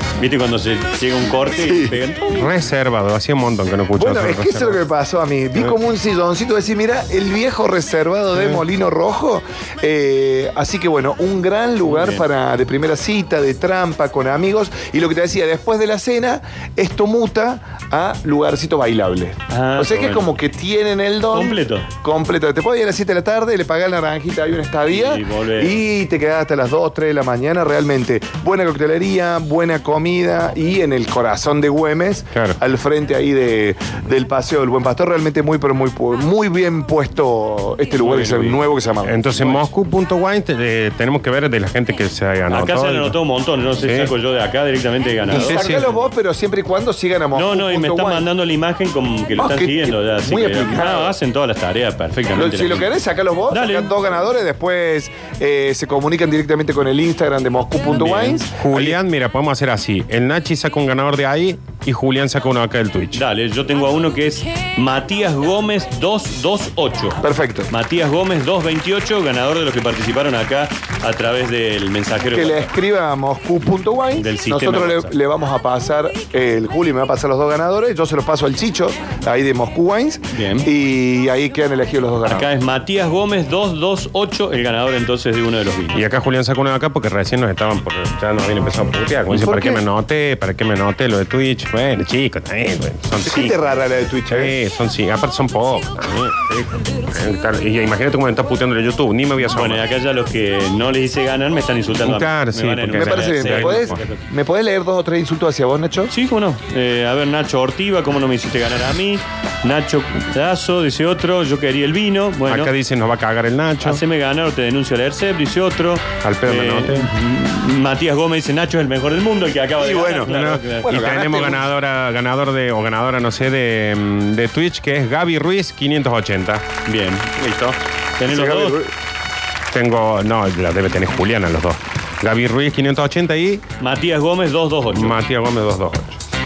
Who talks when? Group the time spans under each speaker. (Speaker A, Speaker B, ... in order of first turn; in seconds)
Speaker A: 0.2-2.2, 11.8-12.2, 19.5-20.3, 21.3-21.9, 24.9-25.7, 38.0-38.6, 39.3-39.6, 42.5-46.0, 47.3-52.9, 53.5-53.9, 58.0-58.4, 63.1-72.7, 74.2-75.1, 80.3-80.7, 82.3-86.0, 99.5-104.2, 106.1-112.7, 113.8-121.0, 126.8-128.8, 133.8-135.2
Speaker B: 1.6-2.0, 4.0-39.2, 45.3-48.2, 49.4-51.1, 52.3-59.0, 67.2-67.7, 72.3-82.5, 89.3-89.8, 93.2-94.5, 103.0-106.1, 119.8-121.7, 128.3-128.9
Speaker C: 2.4-4.8, 39.0-43.1, 43.8-44.1, 45.3-45.9, 58.5-63.2, 85.9-93.6, 94.3-99.8, 102.0-104.0, 112.5-114.0, 116.2-117.1, 120.2-126.6, 129.7-133.6, 134.9-136.2